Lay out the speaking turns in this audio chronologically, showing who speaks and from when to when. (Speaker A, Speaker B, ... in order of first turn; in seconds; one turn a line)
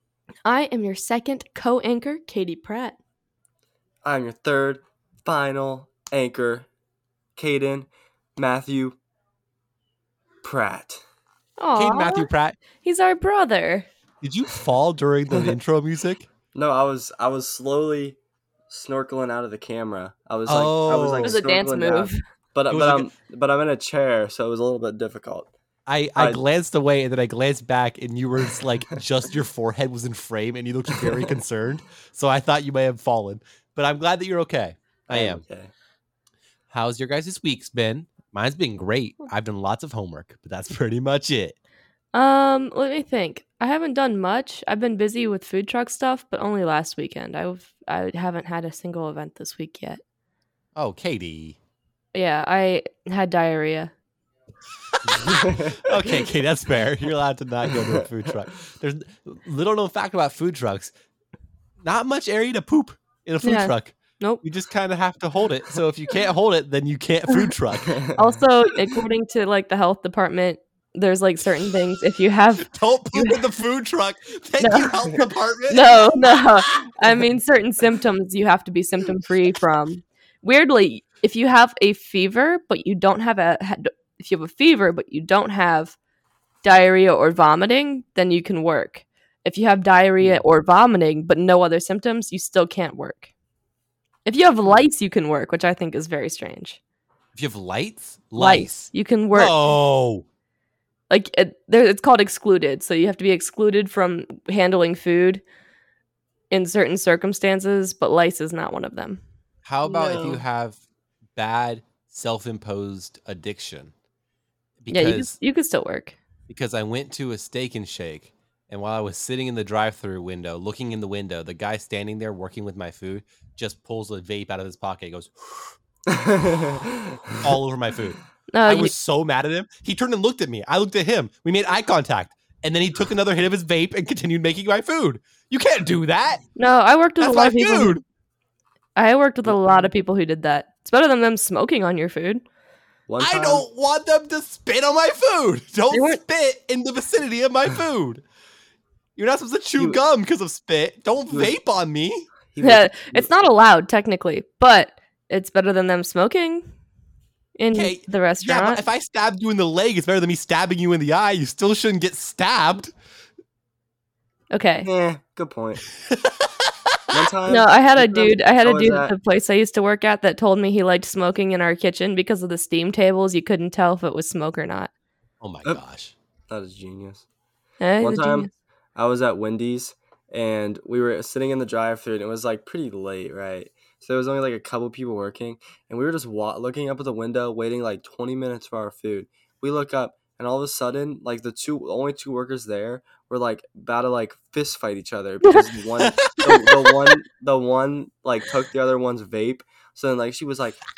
Speaker A: 0.5-3.0
Speaker B: 4.0-6.7
Speaker B: 7.3-9.0
Speaker B: 10.4-11.0
Speaker A: 11.6-12.3
Speaker C: 11.8-12.6
Speaker A: 12.8-13.9
Speaker C: 14.2-16.3
Speaker B: 16.5-18.2
Speaker B: 18.7-25.5
Speaker C: 20.4-21.3
Speaker A: 21.2-22.2
Speaker C: 22.7-23.1
Speaker C: 25.9-35.4
Speaker B: 26.2-26.4
Speaker B: 30.9-31.4
Speaker B: 35.1-35.7
Speaker C: 36.7-41.5
Speaker A: 42.1-50.0
Speaker C: 50.8-51.6
Speaker A: 52.1-53.9
Speaker C: 54.9-60.9
Speaker B: 55.2-56.0
Speaker C: 61.8-68.0
Speaker A: 63.4-64.4
Speaker B: 67.9-68.3
Speaker A: 68.1-73.4
Speaker C: 72.6-76.5
Speaker A: 74.6-75.0
Speaker A: 75.7-86.0
Speaker A: 86.6-93.3
Speaker A: 94.2-96.8
Speaker C: 97.3-100.2
Speaker A: 98.4-99.5
Speaker A: 101.1-105.4
Speaker A: 106.5-109.2
Speaker C: 109.6-110.8
Speaker B: 109.8-110.4
Speaker C: 111.3-113.9
Speaker C: 114.8-115.3
Speaker A: 114.9-116.2
Speaker C: 116.5-125.7
Speaker B: 126.1-127.4
Speaker C: 127.4-136.4
Speaker A: 128.5-128.9
Speaker A: 136.6-138.0
Speaker C: 137.2-138.0
Speaker A: 138.9-142.4
Speaker B: 139.6-139.9
Speaker B: 143.1-143.6
Speaker C: 143.2-148.2
Speaker A: 145.9-146.2
Speaker C: 149.2-152.3
Speaker B: 152.5-153.3
Speaker A: 152.6-156.7
Speaker A: 157.6-158.8
Speaker C: 157.7-162.9
Speaker A: 164.5-164.9
Speaker B: 164.8-165.8
Speaker C: 166.0-167.2
Speaker B: 167.1-169.1
Speaker A: 167.5-174.9
Speaker C: 175.4-176.1
Speaker B: 176.5-177.2
Speaker A: 177.8-178.5
Speaker B: 178.0-200.8
Speaker C: 196.0-196.8